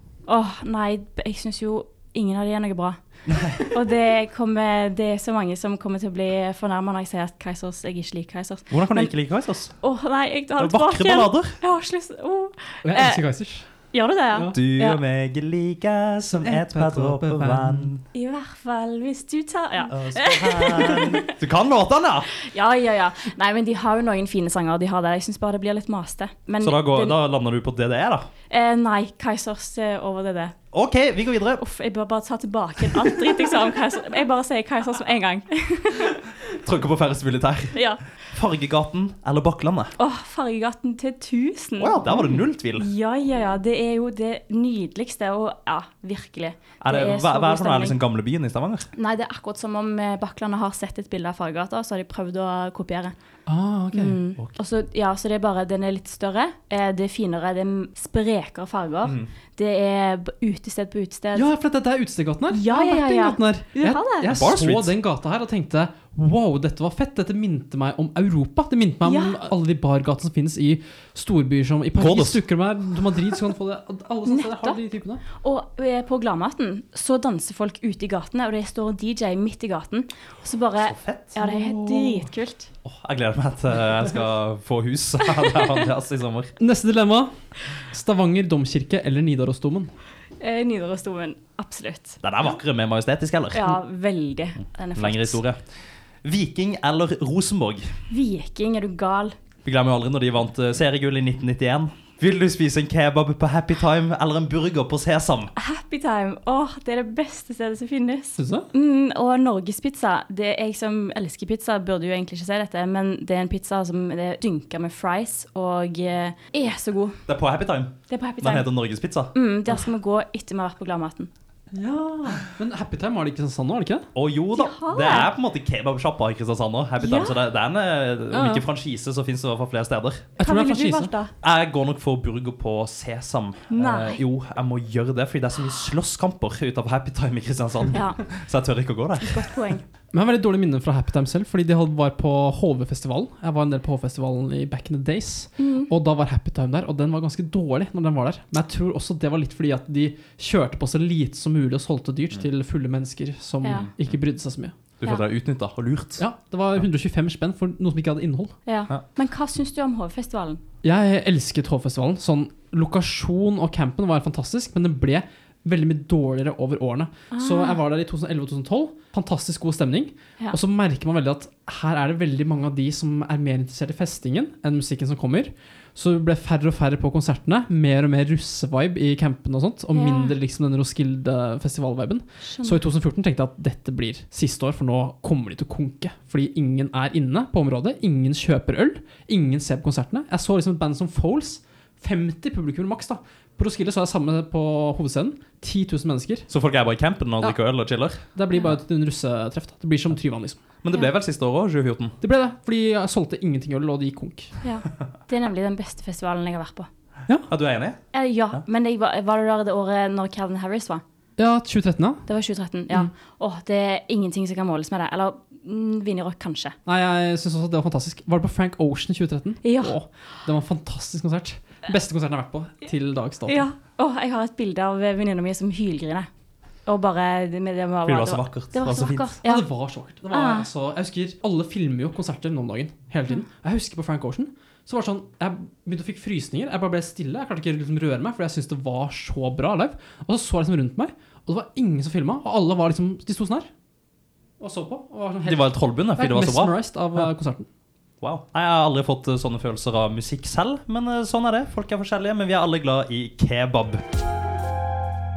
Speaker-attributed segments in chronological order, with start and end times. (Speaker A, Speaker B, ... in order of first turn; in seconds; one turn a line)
Speaker A: 0.3-3.0
Speaker B: 3.3-3.8
Speaker A: 3.7-9.1
Speaker B: 8.7-9.8
Speaker A: 9.8-13.2
Speaker B: 10.6-11.6
Speaker C: 12.8-13.7
Speaker A: 13.9-15.0
Speaker B: 14.5-18.1
Speaker C: 16.2-17.9
Speaker A: 18.1-21.3
Speaker B: 19.9-22.3
Speaker A: 22.4-27.2
Speaker B: 26.6-28.3
Speaker A: 28.5-30.6
Speaker B: 30.7-31.6
Speaker A: 31.6-36.2
Speaker B: 36.6-39.9
Speaker A: 37.8-38.0
Speaker A: 40.0-48.0
Speaker B: 41.8-42.9
Speaker B: 46.8-48.9
Speaker A: 49.0-53.1
Speaker C: 53.5-54.2
Speaker A: 53.9-61.5
Speaker C: 61.4-75.2
Speaker A: 62.5-64.3
Speaker B: 64.2-64.9
Speaker A: 69.0-69.4
Speaker B: 72.0-72.4
Speaker A: 74.3-74.8
Speaker A: 75.3-82.7
Speaker B: 80.9-81.4
Speaker C: 81.4-82.3
Speaker B: 82.8-86.5
Speaker C: 86.6-87.3
Speaker C: 87.9-89.9
Speaker A: 90.4-92.2
Speaker B: 92.2-93.7
Speaker A: 93.5-95.4
Speaker B: 95.0-95.6
Speaker B: 96.2-97.9
Speaker A: 98.1-99.3
Speaker B: 99.7-105.5
Speaker A: 105.6-117.2
Speaker C: 108.4-108.7
Speaker B: 117.3-119.3
Speaker A: 118.1-118.7
Speaker A: 119.3-121.3
Speaker C: 121.7-124.1
Speaker B: 124.2-130.3
Speaker A: 124.5-125.3
Speaker A: 127.0-127.4
Speaker C: 128.3-128.7
Speaker C: 130.4-131.1
Speaker A: 130.4-131.3
Speaker B: 131.4-139.5
Speaker A: 133.7-134.2
Speaker A: 137.9-138.2
Speaker A: 139.2-139.8
Speaker C: 140.1-154.7
Speaker A: 145.6-145.9
Speaker B: 153.7-154.2
Speaker B: 155.0-156.2
Speaker C: 156.2-158.6
Speaker A: 158.7-160.6
Speaker C: 160.8-196.5
Speaker A: 167.3-167.8
Speaker A: 180.0-180.3
Speaker A: 182.5-182.8
Speaker B: 196.5-198.2
Speaker C: 198.3-200.6
Speaker B: 200.8-202.2
Speaker C: 202.2-204.5
Speaker A: 204.6-206.9
Speaker B: 207.5-208.0
Speaker A: 208.1-211.0
Speaker C: 211.4-212.2
Speaker A: 212.3-216.8
Speaker C: 216.9-223.6
Speaker A: 219.6-220.0
Speaker A: 223.5-226.3
Speaker A: 226.9-229.7
Speaker B: 228.1-229.3
Speaker C: 229.4-243.7
Speaker A: 230.3-230.7
Speaker C: 244.6-247.7
Speaker B: 245.5-246.7
Speaker B: 248.2-254.0